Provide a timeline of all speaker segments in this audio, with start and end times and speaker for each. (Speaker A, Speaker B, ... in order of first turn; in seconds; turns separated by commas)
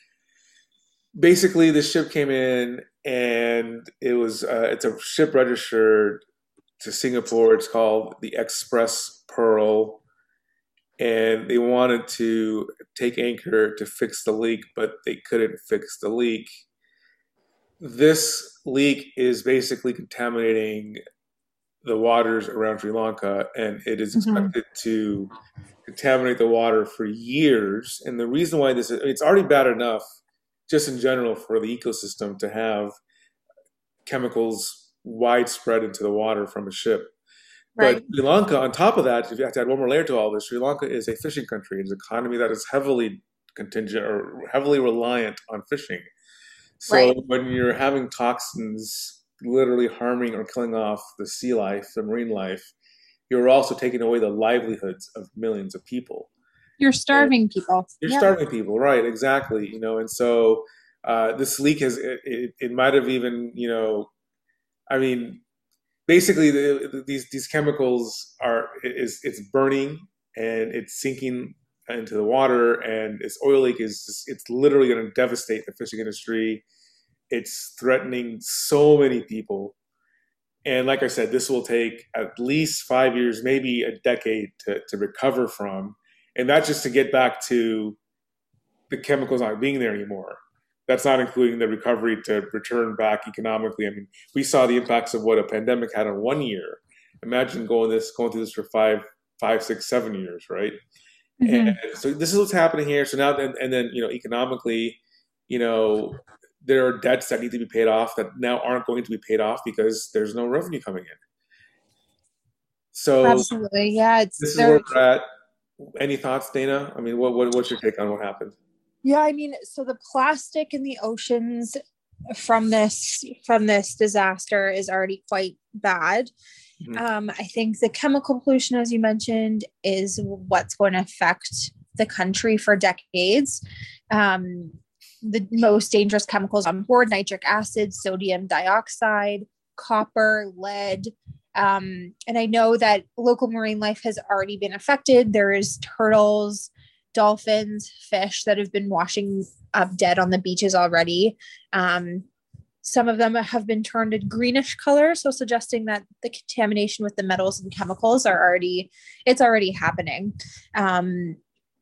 Speaker A: 1.2-6.2, Speaker A: 6.8-10.0, Speaker A: 11.0-16.5, Speaker A: 17.8-21.0, Speaker A: 21.8-25.3, Speaker B: 24.1-24.5, Speaker A: 25.9-30.0, Speaker A: 30.7-32.9, Speaker A: 34.0-37.1, Speaker B: 37.8-38.0, Speaker A: 37.8-46.0, Speaker A: 46.8-52.7, Speaker B: 46.9-47.1, Speaker A: 53.3-56.3, Speaker B: 56.8-58.3, Speaker A: 58.0-64.1, Speaker A: 64.9-65.4, Speaker A: 66.1-76.6, Speaker A: 77.3-79.8, Speaker A: 80.6-88.0, Speaker A: 88.9-100.8, Speaker B: 101.4-101.8, Speaker A: 101.5-111.2, Speaker A: 112.9-113.5, Speaker B: 113.2-114.8, Speaker A: 114.4-115.2, Speaker A: 115.8-118.5, Speaker B: 119.0-121.8, Speaker B: 122.3-126.3, Speaker B: 126.9-152.2, Speaker B: 152.8-161.4